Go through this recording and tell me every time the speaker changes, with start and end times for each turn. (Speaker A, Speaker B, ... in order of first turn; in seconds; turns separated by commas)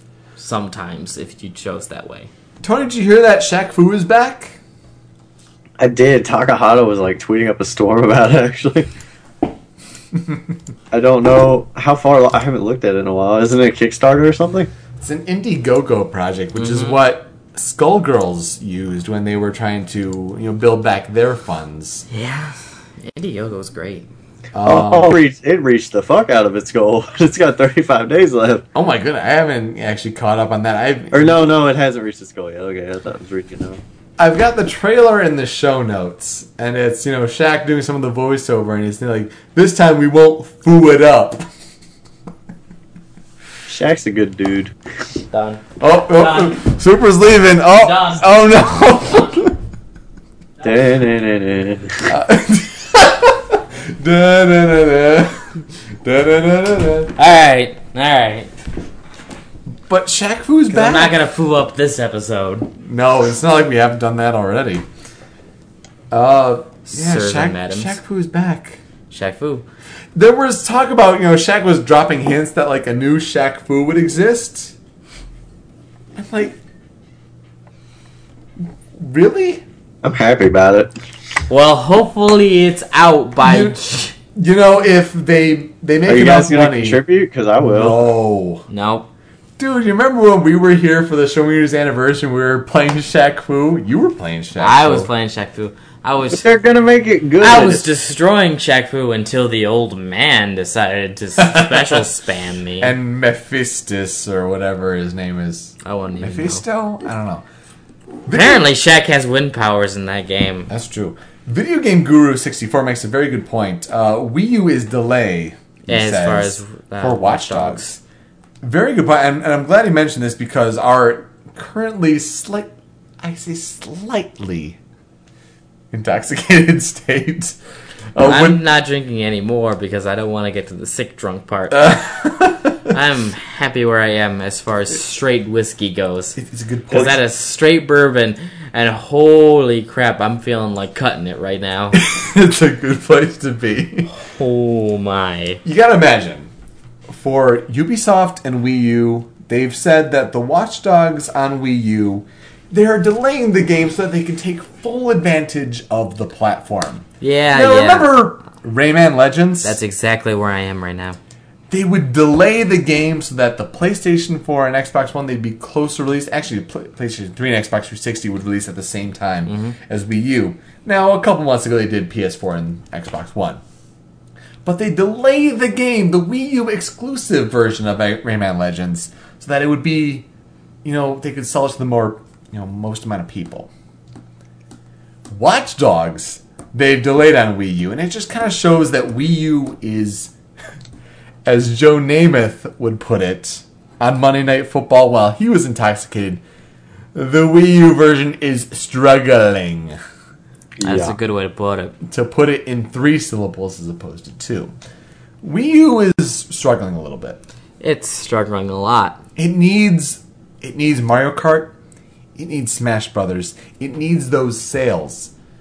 Speaker A: 0.4-2.3, Speaker B: 2.6-4.6, Speaker C: 5.8-8.9, Speaker C: 10.9-14.7, Speaker B: 15.0-22.1, Speaker A: 16.6-17.0, Speaker A: 22.1-24.1, Speaker B: 24.5-25.2, Speaker C: 24.6-28.6, Speaker B: 28.7-31.5, Speaker C: 31.1-33.8, Speaker B: 34.2-41.5, Speaker C: 43.7-44.7, Speaker A: 45.3-46.6, Speaker B: 45.8-49.6, Speaker A: 47.7-49.5, Speaker C: 50.6-52.1, Speaker B: 52.1-57.1, Speaker A: 57.2-58.5, Speaker B: 59.9-61.1, Speaker A: 60.7-62.7, Speaker B: 62.8-64.9, Speaker B: 66.1-68.8, Speaker A: 66.9-68.0, Speaker A: 69.1-69.7, Speaker B: 70.2-74.8, Speaker B: 76.2-76.6, Speaker B: 79.0-79.7, Speaker C: 80.0-80.9, Speaker A: 81.5-84.2, Speaker B: 83.4-83.8, Speaker B: 84.3-87.0, Speaker C: 86.1-88.0, Speaker B: 87.6-88.7, Speaker A: 88.7-89.1, Speaker B: 89.6-95.1, Speaker A: 94.6-96.5, Speaker C: 96.3-97.9, Speaker A: 97.4-102.9, Speaker B: 101.4-102.0, Speaker B: 102.8-107.5, Speaker A: 105.8-106.6, Speaker B: 108.3-108.7, Speaker A: 108.3-110.7, Speaker B: 110.7-117.9, Speaker A: 115.9-118.0, Speaker B: 118.6-124.8, Speaker B: 125.9-127.6, Speaker B: 128.1-128.6, Speaker A: 128.2-132.2, Speaker B: 131.7-132.9, Speaker A: 132.8-136.4, Speaker B: 136.4-137.2, Speaker A: 136.9-142.0, Speaker B: 141.9-144.1, Speaker A: 144.1-145.6, Speaker B: 145.6-146.5, Speaker B: 147.1-159.8, Speaker A: 157.2-158.2, Speaker A: 159.6-161.2, Speaker B: 161.7-173.6, Speaker A: 169.5-169.8, Speaker B: 174.7-180.3, Speaker B: 180.8-183.7, Speaker B: 185.3-190.3, Speaker B: 191.4-196.4, Speaker B: 197.2-200.0, Speaker C: 200.8-201.2, Speaker A: 200.8-202.0, Speaker B: 202.0-204.7, Speaker B: 205.4-207.4, Speaker A: 207.8-209.2, Speaker B: 209.4-211.8, Speaker B: 212.4-215.3